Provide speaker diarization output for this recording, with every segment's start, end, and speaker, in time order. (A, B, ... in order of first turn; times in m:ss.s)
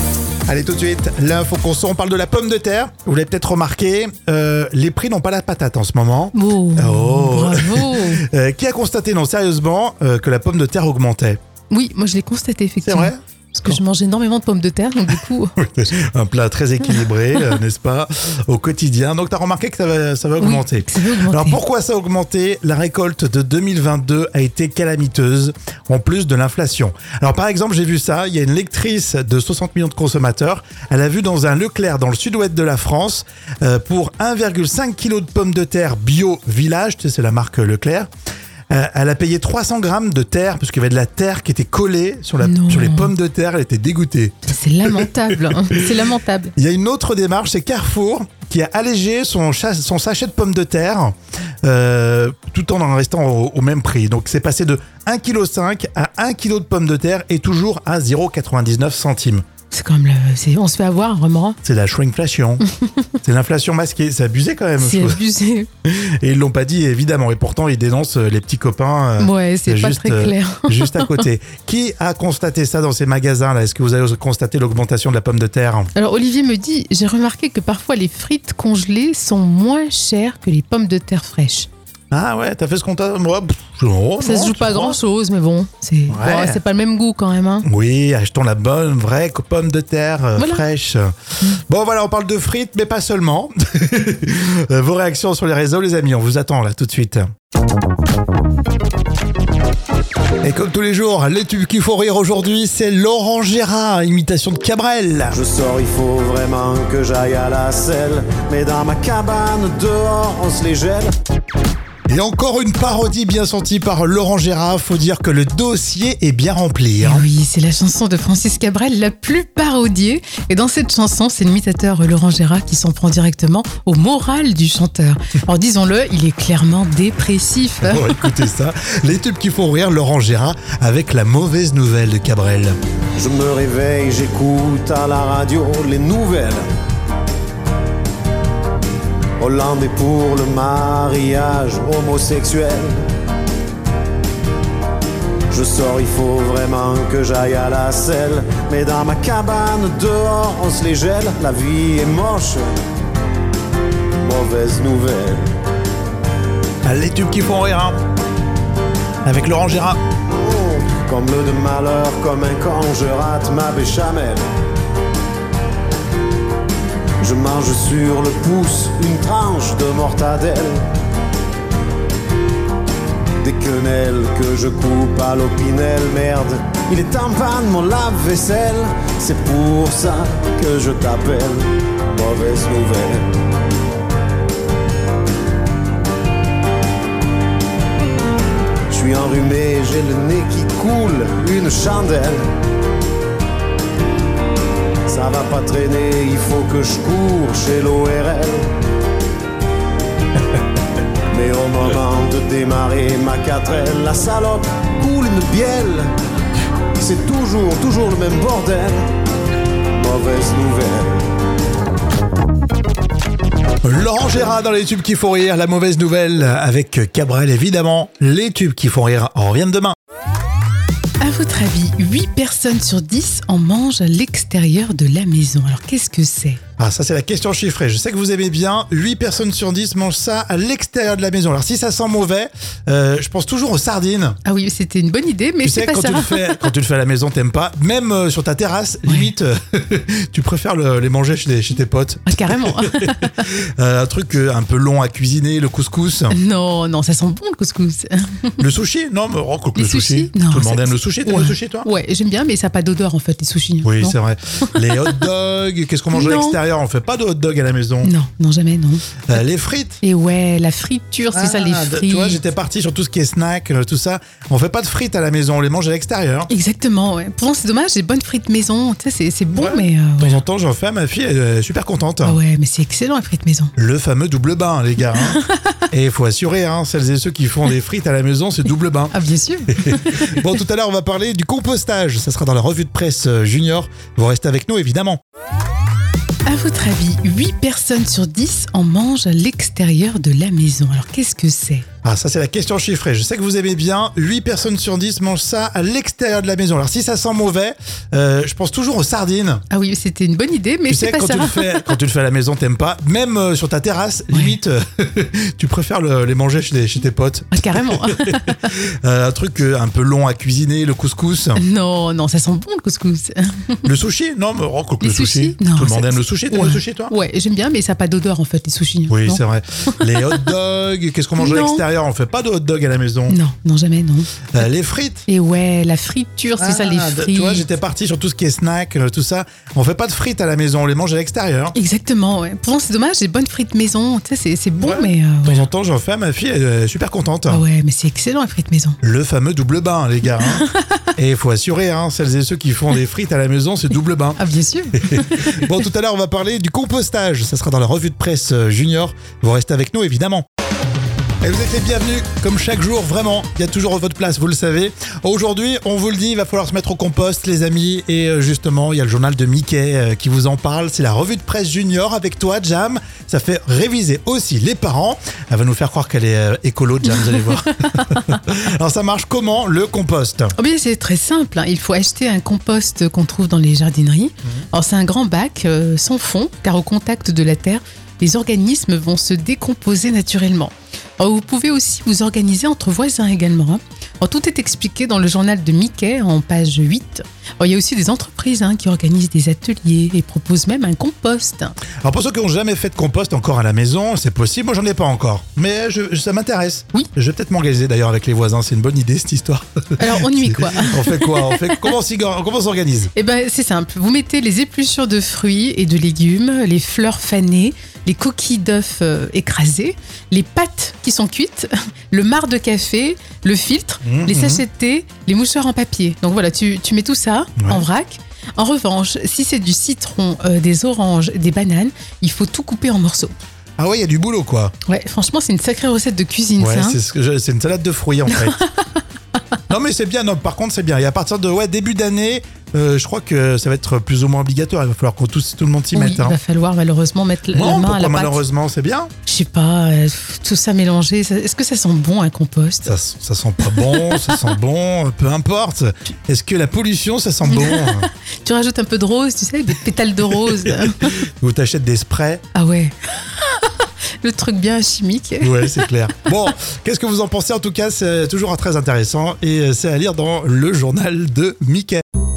0:00.5-0:11.4 A
0:06.3-0:08.2 B
0:11.7-0:15.6 B
0:12.8-0:13.8 A
0:15.6-0:38.1 A
0:16.9-0:17.6 B
0:20.4-0:21.6 B
0:38.7-0:45.8 A
0:42.4-0:43.1 B
0:44.5-0:46.6 B
0:46.6-0:59.4 A
0:59.7-1:01.6 B
1:01.6-1:02.6 A
1:02.6-1:03.1 B
1:03.2-1:05.2 A
1:04.8-1:05.7 B
1:05.8-1:15.9 A
1:09.2-1:11.3 B
1:15.9-1:21.7 B
1:22.1-1:25.0 A
1:24.2-1:27.7 B
1:26.1-1:26.6 A
1:27.6-1:37.3 A
1:30.4-1:30.7 B
1:40.4-1:45.4 A
1:45.3-1:51.2 C
1:52.1-1:57.3 A
1:57.0-2:08.4 B
2:07.8-2:12.8 A
2:13.2-2:16.7 C
2:19.4-2:23.1 C
2:25.5-2:32.8 C
2:34.2-2:35.5 C
2:36.8-2:38.0 A
2:39.2-2:40.0 A
2:40.4-2:44.4 C
2:47.2-2:50.9 C
2:53.4-3:03.3 C
3:08.9-3:12.5 C
3:15.1-3:18.7 C
3:21.3-3:26.1 C
3:27.0-3:29.1 C
3:29.9-3:31.2 C
3:33.8-3:40.0 A
3:41.2-3:46.6 B
3:46.8-3:54.4 A
3:54.4-3:56.7 B
3:55.6-4:06.4 A
3:59.1-3:59.3 B
4:02.2-4:03.4 B
4:06.3-4:08.6 B
4:08.6-4:11.9 A
4:09.8-4:15.3 B
4:13.8-4:18.1 A
4:16.1-4:16.6 B
4:18.0-4:19.3 B
4:19.3-4:20.0 A
4:20.0-4:22.4 B
4:21.3-4:26.5 A
4:26.5-4:30.4 B
4:29.5-4:32.4 A
4:32.2-4:33.7 B
4:33.8-4:39.1 A
4:35.3-4:35.8 B
4:39.1-4:40.4 B
4:39.7-4:45.2 A
4:46.4-4:51.9 B
4:52.0-4:59.6 A
4:59.7-5:02.0 B
5:00.9-5:11.6 A
5:04.3-5:04.6 B
5:07.5-5:08.8 B
5:11.6-5:13.9 B
5:13.8-5:17.1 A
5:15.0-5:20.5 B
5:19.1-5:23.4 A
5:21.4-5:21.8 B
5:23.3-5:24.7 B
5:24.5-5:25.3 A
5:25.3-5:27.7 B
5:26.6-5:31.7 A
5:31.7-5:35.7 B
5:34.8-5:37.6 A
5:37.5-5:39.0 B
5:39.0-5:44.4 A
5:40.4-5:41.1 B
5:44.4-5:45.7 B
5:44.9-5:50.4 A
5:51.4-6:10.5 A
6:07.1-6:08.3 B
6:10.6-6:31.8 B
6:32.0-6:43.1 A
6:40.0-6:42.0 B
6:43.1-7:03.4 B
6:54.0-6:54.6 A
6:57.6-6:57.8 A
7:03.8-7:04.7 A
7:04.9-7:07.0 B
7:06.6-7:08.6 A
7:08.3-7:09.0 B
7:09.7-7:16.4 A
7:15.9-7:18.5 B
7:17.5-7:19.1 A
7:19.3-7:23.0 B
7:22.8-7:28.1 A
7:23.7-7:24.5 B
7:27.4-7:31.2 B
7:30.6-7:32.4 A
7:32.5-7:35.9 B
7:35.4-7:42.0 A